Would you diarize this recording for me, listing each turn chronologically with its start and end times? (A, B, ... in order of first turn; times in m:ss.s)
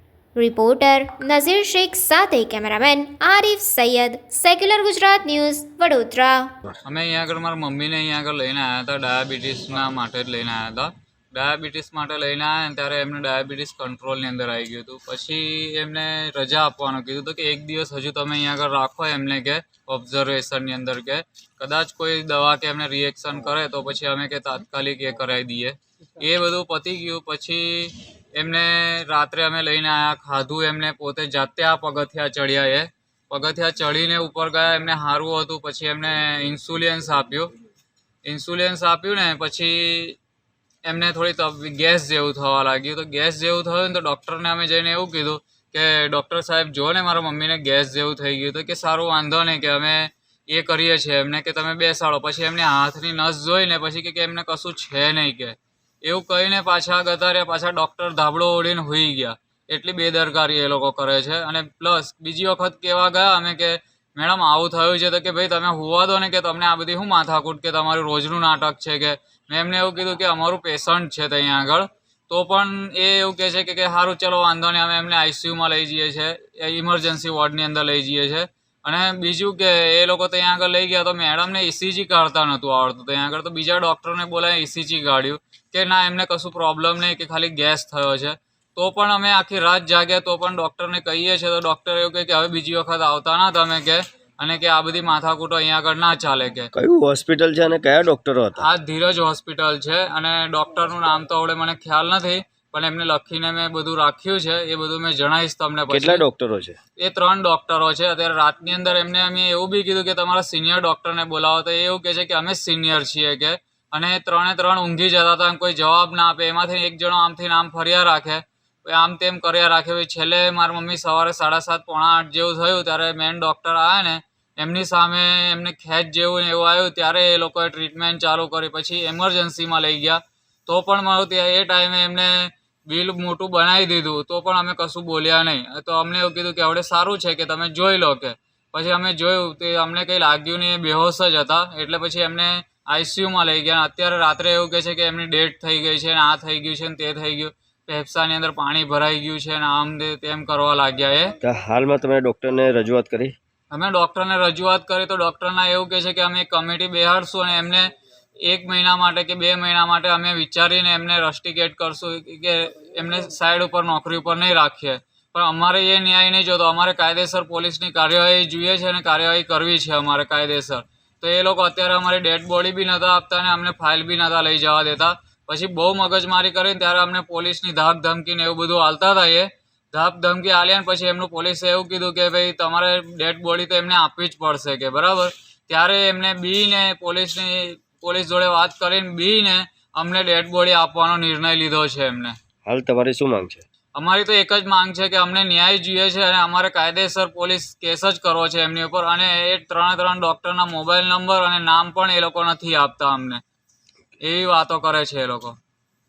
0:00.4-0:06.5 A
0:06.8-0:37.5 B
0:38.2-0:40.2 B
0:40.8-1:36.7 B
1:36.7-1:38.7 C
1:38.6-1:46.2 B
1:45.9-1:46.8 C
1:47.0-2:31.4 B
2:31.4-2:33.3 C
2:33.7-2:37.9 B
2:38.4-3:12.4 B
3:12.6-3:13.6 C
3:14.0-3:23.4 B
3:24.2-3:25.6 B